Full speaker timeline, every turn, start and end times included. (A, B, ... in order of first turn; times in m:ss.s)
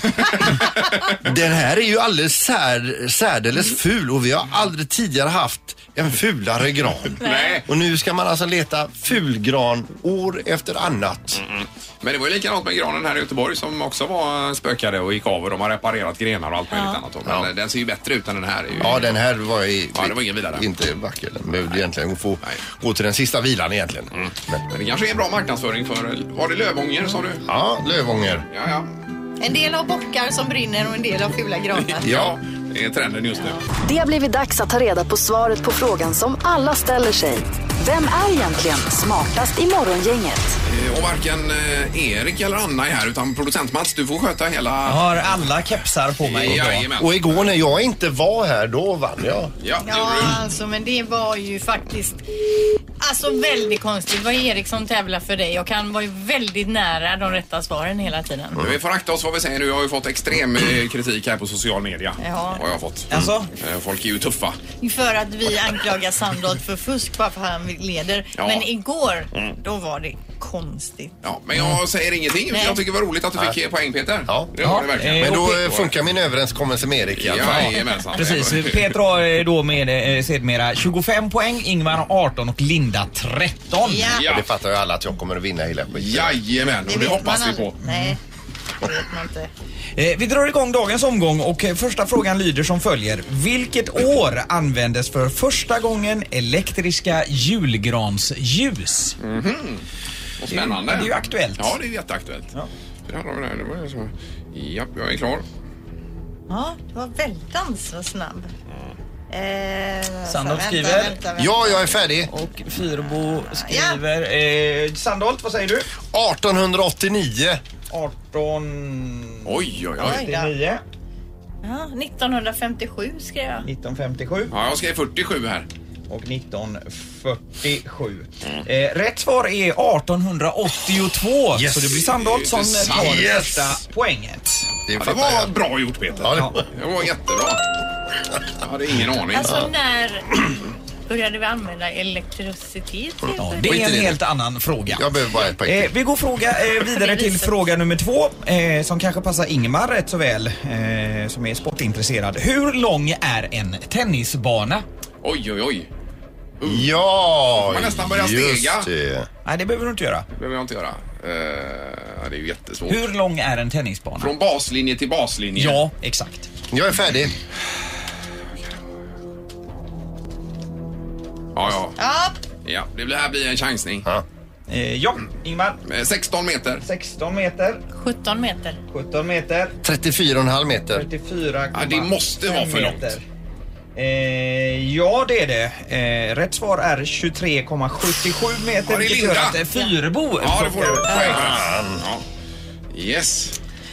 0:00.2-0:11.4 A
0:07.2-0:07.6 B
0:07.2-0:07.6 C
0:11.4-0:19.0 B
0:16.7-0:17.0 C
0:18.8-0:24.6 A
0:19.9-0:20.6 B
0:24.2-0:27.4 B
0:27.4-0:28.5 A
0:28.5-0:28.9 B
0:29.4-0:32.1 C
0:31.8-0:33.6 B
0:32.0-0:32.4 A
0:33.8-0:40.6 D
0:40.6-0:45.2 B
0:44.8-0:46.9 E
0:46.2-0:47.5 B
0:46.5-0:49.5 A
0:49.6-0:50.4 B
0:49.8-0:52.3 C
0:53.0-0:58.6 C
0:58.6-1:04.6 B
1:02.2-1:02.6 C
1:03.1-1:03.5 E
1:04.8-1:11.2 C
1:08.4-1:08.7 B
1:11.2-1:15.9 B
1:12.5-1:12.8 C
1:14.2-1:14.5 A
1:14.6-1:15.6 E
1:15.0-1:17.8 A
1:17.1-1:19.0 B
1:17.5-1:24.1 E
1:23.8-1:24.3 C
1:24.1-1:24.5 B
1:24.2-1:26.4 A
1:26.0-1:27.8 B
1:26.9-1:28.2 C
1:27.9-1:28.1 E
1:28.8-1:29.5 C
1:30.0-1:39.2 E
1:39.2-1:39.8 B
1:40.4-1:42.5 B
1:40.5-1:41.7 E
1:43.1-1:45.4 B
1:46.5-1:48.5 C
1:49.3-1:52.0 C
1:50.3-1:51.2 E
1:51.4-1:52.3 A
1:52.3-1:55.9 E
1:53.5-1:54.0 C
1:56.1-1:57.6 A
1:57.9-2:00.8 E
1:59.4-2:00.3 B
2:00.0-2:00.5 C
2:01.6-2:03.6 C
2:03.6-2:04.5 E
2:04.5-2:05.7 B
2:06.1-2:14.7 E
2:11.5-2:12.0 A
2:12.1-2:13.3 B
2:12.8-2:13.8 A
2:14.9-2:15.5 A
2:15.0-2:17.6 B
2:16.2-2:16.6 A
2:16.3-2:16.6 E
2:18.6-2:19.6 B
2:19.3-2:23.8 C
2:19.4-2:19.7 A
2:23.4-2:25.1 E
2:23.6-2:24.2 A
2:24.9-2:25.9 A
2:25.6-2:34.8 E
2:26.9-2:27.5 C
2:35.2-2:35.9 B
2:36.6-2:36.9 B
2:36.6-2:39.3 A
2:37.6-2:38.9 B
2:39.4-2:40.3 E
2:40.3-2:43.0 B
2:42.9-2:44.3 E
2:44.2-2:45.8 B
2:45.6-2:46.5 E
2:46.7-2:47.3 A
2:51.5-2:52.0 B
2:52.0-2:52.4 C
2:52.6-2:54.0 B
2:54.7-2:55.8 E
2:55.8-2:56.8 B
2:56.8-2:57.8 E
2:57.9-2:58.8 C
2:58.9-2:59.8 E
2:59.8-3:01.0 A
3:00.9-3:03.2 E
3:01.7-3:03.2 B
3:04.0-3:11.5 E
3:08.9-3:09.6 B
3:10.4-3:12.2 B
3:11.1-3:12.1 A
3:12.9-3:13.6 B